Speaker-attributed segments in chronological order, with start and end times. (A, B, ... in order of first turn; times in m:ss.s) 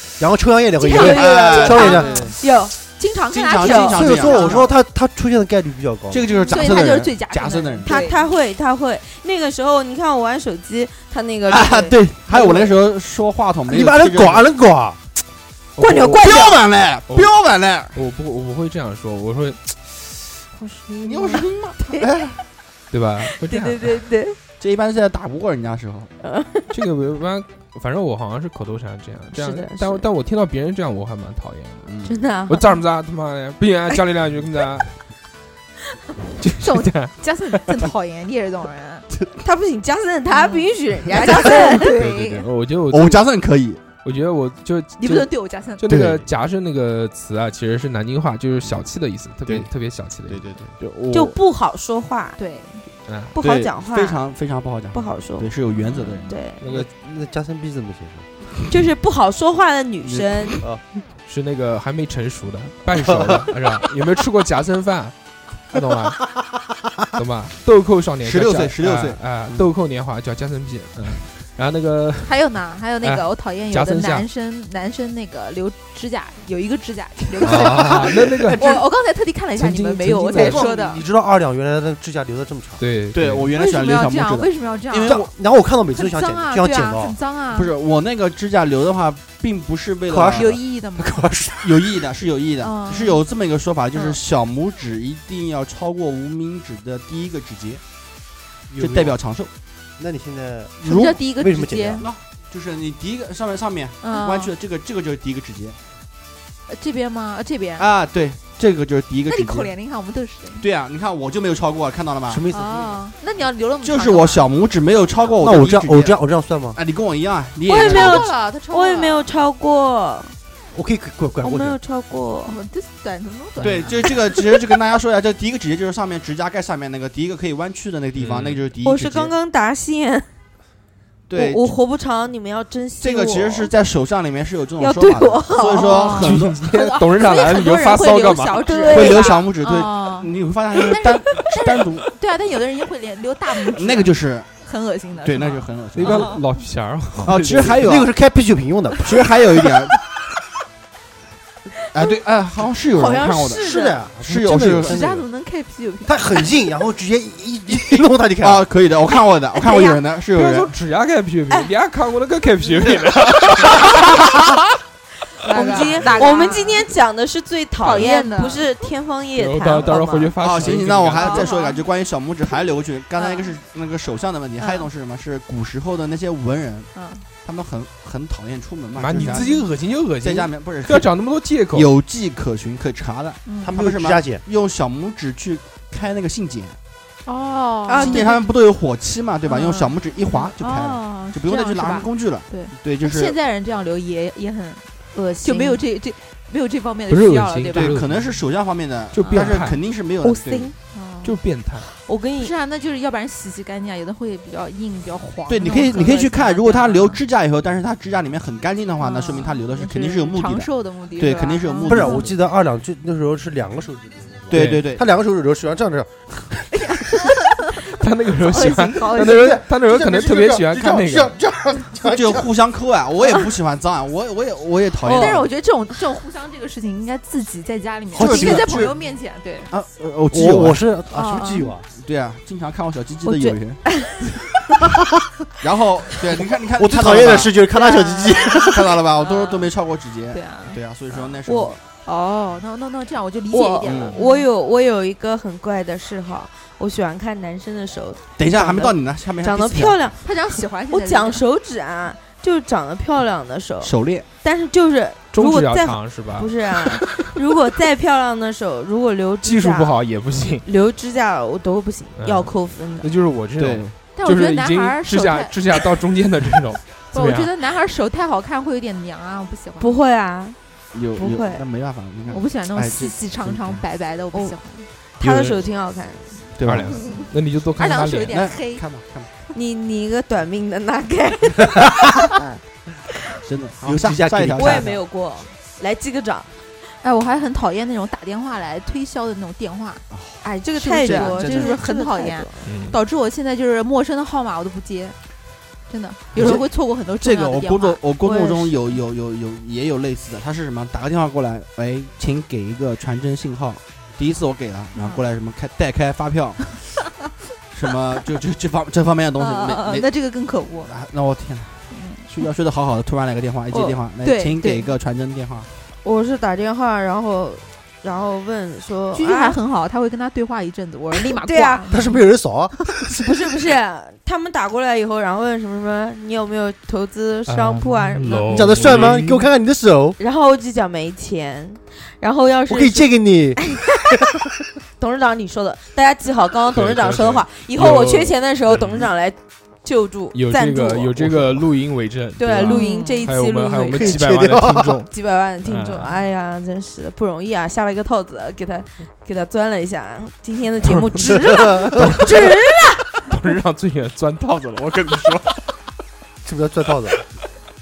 0:00.2-0:02.2 A
0:00.8-0:02.8 B
0:00.9-0:02.4 C
0:00.9-0:04.7 D
0:03.3-0:04.7 C
0:03.6-0:04.0 B
0:03.9-0:06.3 A
0:06.1-0:08.0 C
0:06.3-0:06.8 B
0:06.5-0:08.3 D
0:07.8-0:12.6 B
0:11.5-0:14.5 C
0:13.7-0:15.0 A
0:15.8-0:16.3 E
0:15.8-0:16.6 B
0:16.0-0:18.0 C
0:17.9-0:21.4 E
0:21.0-0:22.4 C
0:21.3-0:22.1 B
0:22.9-0:24.0 E
0:23.3-0:24.4 B
0:24.6-0:26.1 C
0:26.2-0:26.7 B
0:26.7-0:31.9 E
0:29.4-0:30.0 B
0:31.9-0:32.2 C
0:32.0-0:32.7 B
0:32.5-0:34.9 E
0:36.4-0:37.9 E
0:36.6-0:39.1 D
0:39.4-0:41.9 B
0:40.3-0:42.5 D
0:41.8-0:43.2 E
0:42.9-0:43.8 C
0:44.0-0:51.4 E
0:45.0-0:45.8 D
0:45.8-0:46.3 C
0:50.3-0:50.8 C
0:51.1-0:52.4 B
0:52.4-0:52.9 D
0:53.1-0:53.3 E
0:53.3-0:54.2 B
0:53.4-0:56.3 C
0:54.9-0:56.6 B
0:56.6-0:56.9 E
0:56.7-0:58.3 A
0:58.7-1:00.6 B
1:00.0-1:00.6 C
1:01.2-1:05.1 E
1:05.7-1:06.4 E
1:07.1-1:12.4 E
1:08.2-1:09.2 C
1:12.2-1:21.0 D
1:13.0-1:14.3 E
1:17.4-1:18.9 E
1:19.6-1:20.7 E
1:20.3-1:22.8 A
1:22.8-1:23.5 E
1:23.1-1:25.3 C
1:23.5-1:25.3 D
1:25.0-1:27.2 A
1:25.9-1:27.7 D
1:27.5-1:30.6 C
1:30.1-1:32.0 A
1:30.3-1:31.2 D
1:31.6-1:37.8 C
1:32.6-1:33.2 D
1:38.7-1:39.2 A
1:38.8-1:39.5 C
1:40.0-1:42.1 A
1:40.8-1:42.1 D
1:40.9-1:41.1 C
1:42.0-1:45.8 C
1:44.0-1:44.5 D
1:46.7-1:47.9 D
1:47.8-1:49.7 C
1:49.3-1:50.7 D
1:50.6-1:52.5 C
1:52.3-1:52.9 A
1:52.5-1:54.5 D
1:53.8-1:56.2 C
1:55.4-1:56.8 A
1:56.8-1:58.3 C
1:57.7-2:00.4 B
1:57.7-1:59.3 D
2:00.7-2:01.8 A
2:01.4-2:02.6 B
2:02.4-2:04.1 D
2:03.6-2:09.3 C
2:08.2-2:08.6 E
2:08.8-2:10.3 B
2:11.3-2:11.7 C
2:11.3-2:13.7 B
2:13.0-2:16.6 C
2:14.8-2:16.2 B
2:15.6-2:20.3 D
2:16.1-2:18.9 E
2:18.6-2:19.4 B
2:18.9-2:22.1 C
2:20.8-2:26.5 D
2:23.7-2:24.5 C
2:25.2-2:26.4 C
2:25.9-2:27.8 E
2:27.2-2:28.1 C
2:27.4-2:29.1 A
2:29.0-2:30.0 C
2:31.9-2:35.0 C
2:32.9-2:34.0 B
2:33.6-2:35.3 A
2:34.8-2:36.3 D
2:36.0-2:38.7 A
2:38.0-2:40.7 C
2:39.6-2:40.0 B
2:40.3-2:44.5 E
2:43.7-2:44.0 D
2:45.4-2:46.9 D
2:45.5-2:50.3 B
2:45.6-2:46.0 E
2:47.8-2:48.7 D
2:49.4-2:51.5 E
2:50.4-2:56.9 C
2:50.6-2:51.8 D
2:53.2-2:53.5 D
2:54.6-2:54.9 D
2:56.9-2:57.2 D
2:57.4-2:59.5 C
2:59.0-3:01.9 E
2:59.2-2:59.7 D
3:00.2-3:01.1 C
3:01.7-3:06.8 C
3:03.5-3:03.7 D
3:03.6-3:04.4 A
3:07.2-3:08.4 D
3:07.9-3:08.4 B
3:08.0-3:13.4 C
3:09.4-3:14.9 D
3:15.1-3:15.8 B
3:15.4-3:18.0 D
3:17.1-3:18.4 E
3:17.7-3:20.7 C
3:19.1-3:19.8 E
3:19.2-3:19.6 D
3:20.2-3:20.8 B
3:20.9-3:21.4 D
3:21.2-3:21.9 E
3:21.9-3:22.5 B
3:22.4-3:27.2 D
3:25.5-3:32.3 C
3:25.7-3:26.0 B
3:29.0-3:32.3 D
3:31.8-3:36.2 A
3:34.5-3:35.0 C
3:34.5-3:34.8 E
3:36.7-3:39.6 D
3:37.8-3:41.4 E
3:39.1-3:42.5 A
3:42.0-3:45.5 C
3:45.0-3:49.7 D
3:48.1-3:48.9 A
3:48.2-3:49.0 C
3:49.7-3:50.8 C
3:50.3-3:51.9 A
3:51.1-3:51.8 D
3:52.0-3:53.9 C
3:53.2-3:54.2 B
3:55.6-3:57.6 C
3:56.8-3:59.0 A
3:57.7-3:59.7 D
3:58.6-4:01.8 C
4:00.3-4:01.4 D
4:01.5-4:01.8 B
4:02.0-4:04.5 D
4:03.5-4:10.3 B
4:03.8-4:04.2 C
4:08.4-4:10.0 C
4:10.2-4:11.4 D
4:10.9-4:20.0 B
4:13.8-4:14.3 C
4:15.3-4:17.2 E
4:19.4-4:20.6 E
4:20.6-4:23.1 B
4:22.2-4:27.5 E
4:23.6-4:23.9 C
4:24.2-4:25.6 D
4:27.1-4:29.9 D
4:29.8-4:30.6 B
4:30.9-4:33.8 C
4:31.2-4:31.6 B
4:32.3-4:34.9 D
4:35.2-4:36.4 B
4:35.2-4:35.6 E
4:36.6-4:36.9 C
4:36.6-4:38.5 E
4:36.9-4:38.8 D
4:38.3-4:39.3 C
4:39.5-4:41.9 B
4:43.4-4:45.0 C
4:43.8-4:45.0 A
4:44.6-4:46.5 B
4:47.0-4:50.0 D
4:50.1-4:50.4 C
4:50.4-4:52.7 B
4:50.7-4:55.2 D
4:51.0-4:51.8 C
4:52.7-4:53.0 E
4:55.9-4:58.0 D
4:56.3-5:06.8 C
4:58.2-4:58.8 B
5:05.0-5:05.2 D
5:07.7-5:10.1 C
5:09.4-5:10.9 D
5:10.9-5:15.7 C
5:11.9-5:12.3 D
5:13.7-5:14.0 B
5:14.2-5:15.0 D
5:16.0-5:19.6 B
5:19.1-5:22.2 D
5:21.1-5:21.9 B
5:21.9-5:23.3 A
5:23.1-5:29.0 B
5:27.5-5:29.5 E
5:28.5-5:30.2 A
5:30.2-5:33.2 B
5:32.7-5:33.8 A
5:35.0-5:41.3 B
5:36.7-5:39.1 E
5:40.3-5:45.1 E
5:42.4-5:44.2 B
5:42.6-5:43.3 D
5:43.9-5:45.0 A
5:45.1-5:53.1 B
5:45.6-5:46.1 E
5:50.8-5:52.6 E
5:51.5-5:52.2 A
5:53.3-5:55.6 E
5:56.4-5:57.2 A